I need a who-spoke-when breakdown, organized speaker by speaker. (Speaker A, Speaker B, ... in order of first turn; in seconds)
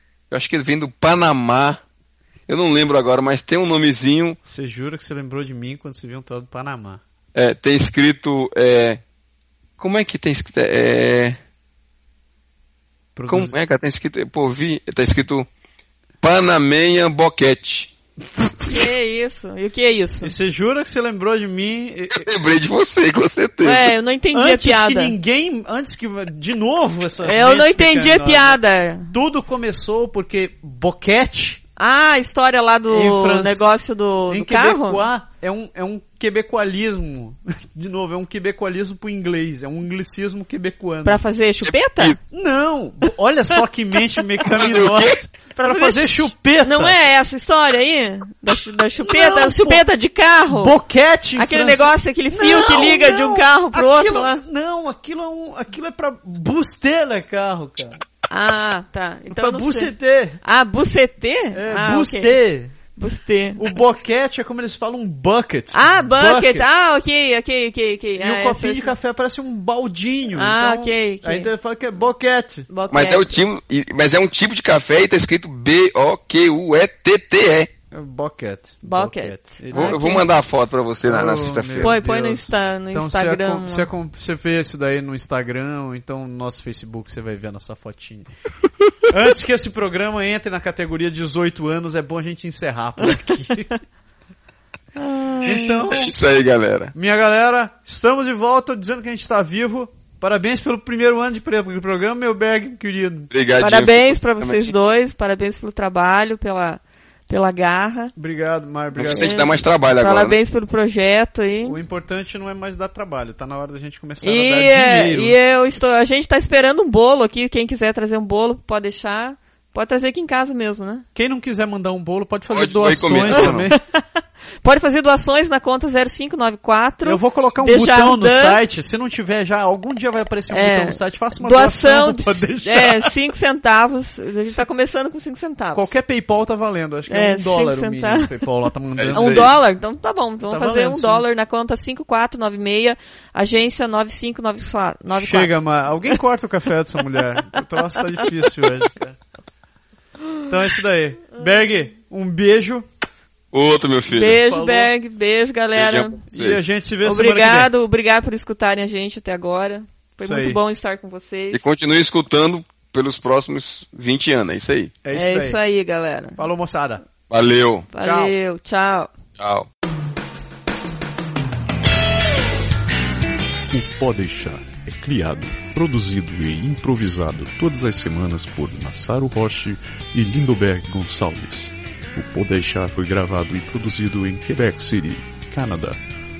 Speaker A: 0.3-1.8, 2.5-4.4, 7.3-9.0, 9.8-11.4, 13.3-15.5, 16.2-17.9, 22.1-23.9, 41.6-42.2, 44.5-45.2, 72.9-77.7, 79.7-82.0, 95.8-96.9, 103.3-104.7, 109.0-110.4, 122.5-123.7, 139.0-139.5, 153.5-154.4, 155.8-156.7, 161.5-164.9, 167.3-167.9, 169.4-169.7
Speaker B: 4.5-7.0, 13.2-13.6, 18.4-18.9, 20.2-22.3, 24.3-31.6, 32.9-33.7, 34.3-41.2, 42.3-47.0, 49.0-49.8, 50.5-58.0, 59.3-60.4, 61.5-62.8, 63.6-66.7, 68.2-72.7, 77.9-80.1, 81.0-88.3, 89.1-93.8, 95.4-96.1, 96.9-103.3, 108.2-109.4, 111.6-115.4, 121.2-123.8, 127.0-133.1, 135.7-139.6, 140.5-141.2, 145.1-149.2, 150.5-152.9, 154.4-154.9, 156.3-157.7, 160.2-160.6, 165.0-165.6, 166.4-167.0, 168.0-168.3
Speaker C: 18.6-20.3, 23.6-25.1, 27.2-29.1, 31.8-35.0, 41.0-42.2, 45.6-50.8, 51.4-54.4, 58.3-62.4, 63.0-63.8, 65.7-68.9, 70.3-71.5, 72.7-73.4, 78.8-80.2, 81.8-83.9, 95.0-95.8, 103.6-108.1, 109.1-111.8, 114.2-121.1, 123.3-123.8, 124.6-128.6, 130.5-135.9, 137.1-138.3, 139.1-145.5, 154.1-156.2, 157.0-161.6, 165.1-166.4, 167.9-169.1
Speaker D: 173.7-186.0